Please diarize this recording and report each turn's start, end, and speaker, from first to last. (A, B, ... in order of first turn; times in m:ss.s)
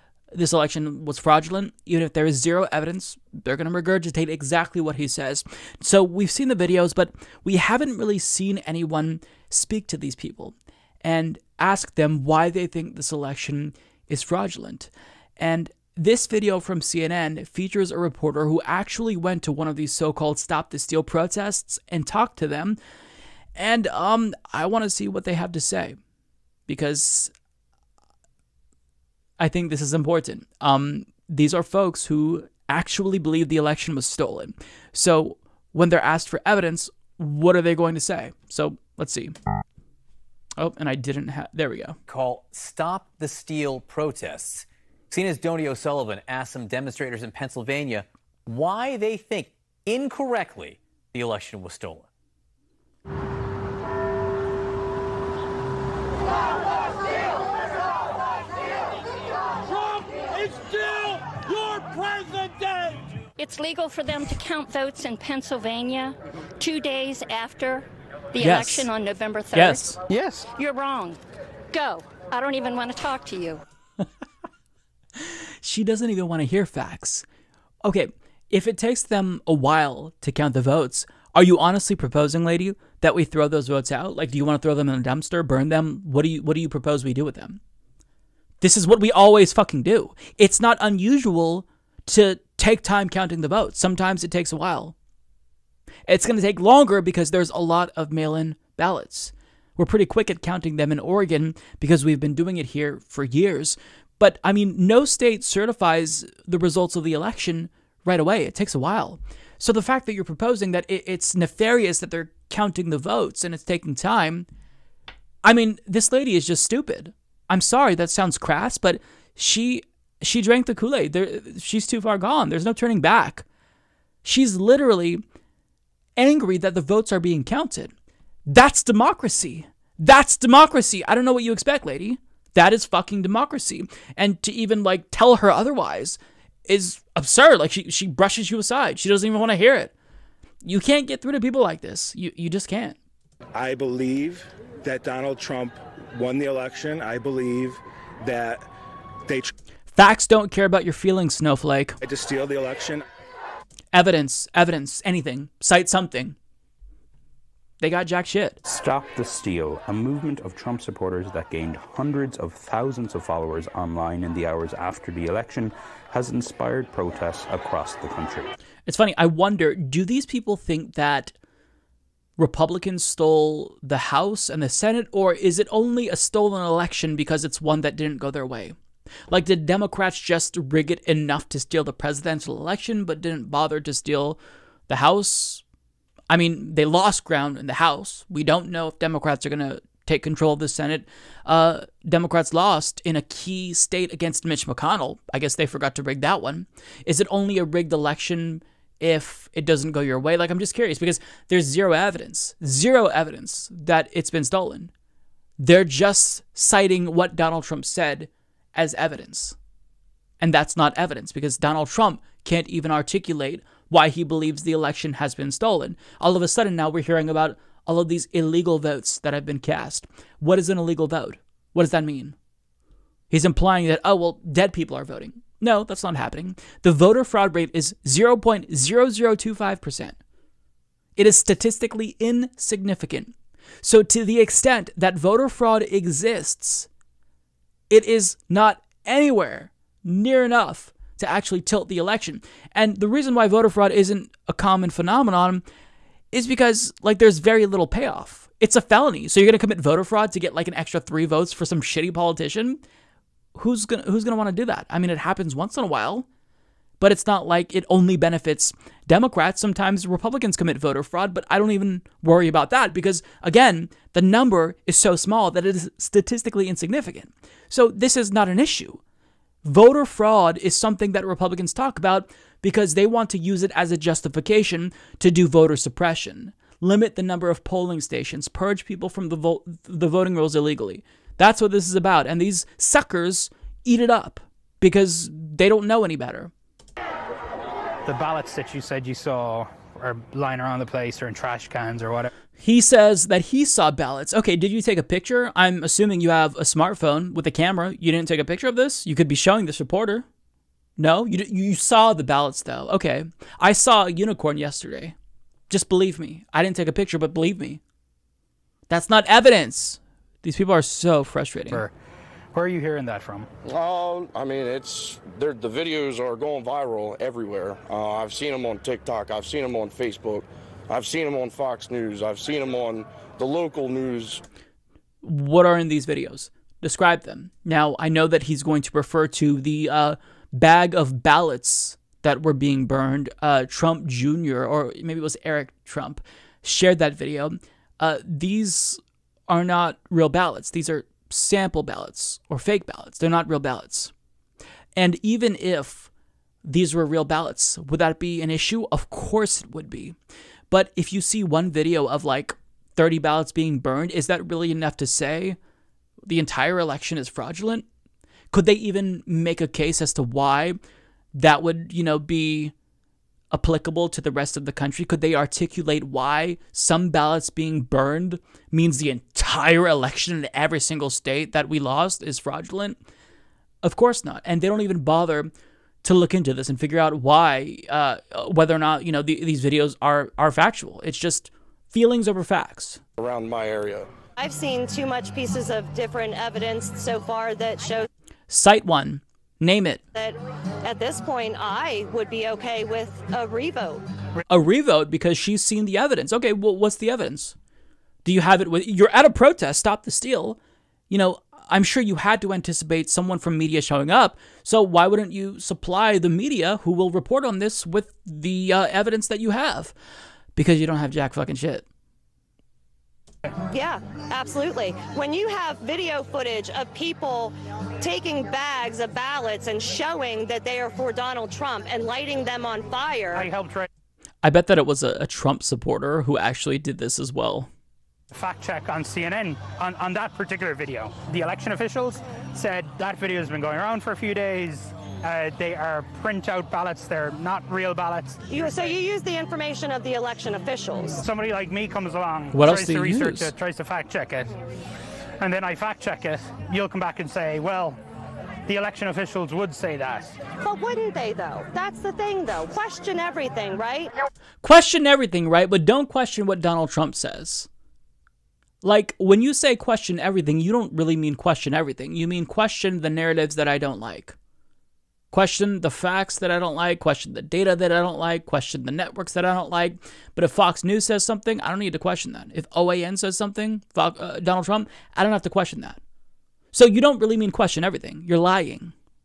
0:00.3-0:22.8 A
0:23.6-0:26.0 A
0:26.7-0:27.3 A
0:29.4-0:39.3 A
0:40.6-0:42.0 A
0:42.1-0:52.1 B
1:03.4-1:10.0 C
1:08.4-1:08.9 A
1:09.5-1:10.0 A
1:10.1-1:10.5 D
1:10.5-1:11.2 C
1:11.7-1:13.6 C
1:15.2-1:17.2 A
1:17.8-1:27.6 A
1:28.6-1:34.9 A
1:36.1-1:54.4 A
1:55.4-2:03.4 A
2:04.2-2:05.2 A
2:06.2-2:07.9 A
2:08.5-2:19.9 A
2:20.6-2:23.0 A
2:23.5-2:28.7 E
2:29.9-2:32.0 A
2:32.0-2:33.0 E
2:33.9-2:36.4 A
2:37.8-2:38.6 A
2:38.6-2:48.5 F
2:48.9-2:51.3 A
2:52.4-2:58.8 A
2:59.3-3:05.6 A
3:06.3-3:24.9 A
3:25.6-3:29.6 A
3:30.4-3:42.4 A
3:43.3-3:50.2 A
3:51.2-3:56.9 A
3:57.9-4:05.6 A
4:06.3-4:12.8 A
4:13.6-4:16.3 A
4:17.0-4:29.0 A
4:29.6-4:46.5 A
4:48.1-4:52.3 D
4:52.6-5:00.2 A
5:01.0-5:05.2 A
5:05.7-5:07.8 A
5:08.9-5:11.8 A
5:12.5-5:13.5 D
5:13.6-5:24.4 G
5:25.2-5:44.1 A
5:45.0-5:46.1 A
5:46.6-5:50.2 A
5:50.7-5:55.6 A
5:56.2-5:57.8 A
5:58.5-6:00.8 A
6:01.3-6:02.7 A
6:03.5-6:13.0 A
6:13.8-6:15.5 A
6:16.0-6:23.0 A
6:23.2-6:24.1 G
6:24.4-6:28.1 H
6:28.5-6:30.0 A
6:30.1-6:34.0 H
6:34.5-6:37.6 A
6:38.2-6:40.6 A
6:41.1-6:49.9 A
6:50.6-6:51.9 A
6:53.7-7:03.5 H
7:03.3-7:03.9 D
7:04.4-7:07.7 A
7:08.3-7:18.9 D
7:18.5-7:21.2 H
7:21.2-7:24.5 D
7:22.5-7:23.5 A
7:25.4-7:28.0 D
7:28.7-7:30.4 D
7:30.6-7:34.1 H
7:34.6-7:37.7 A
7:38.8-7:44.4 A
7:45.3-7:56.0 A
7:56.7-7:58.9 A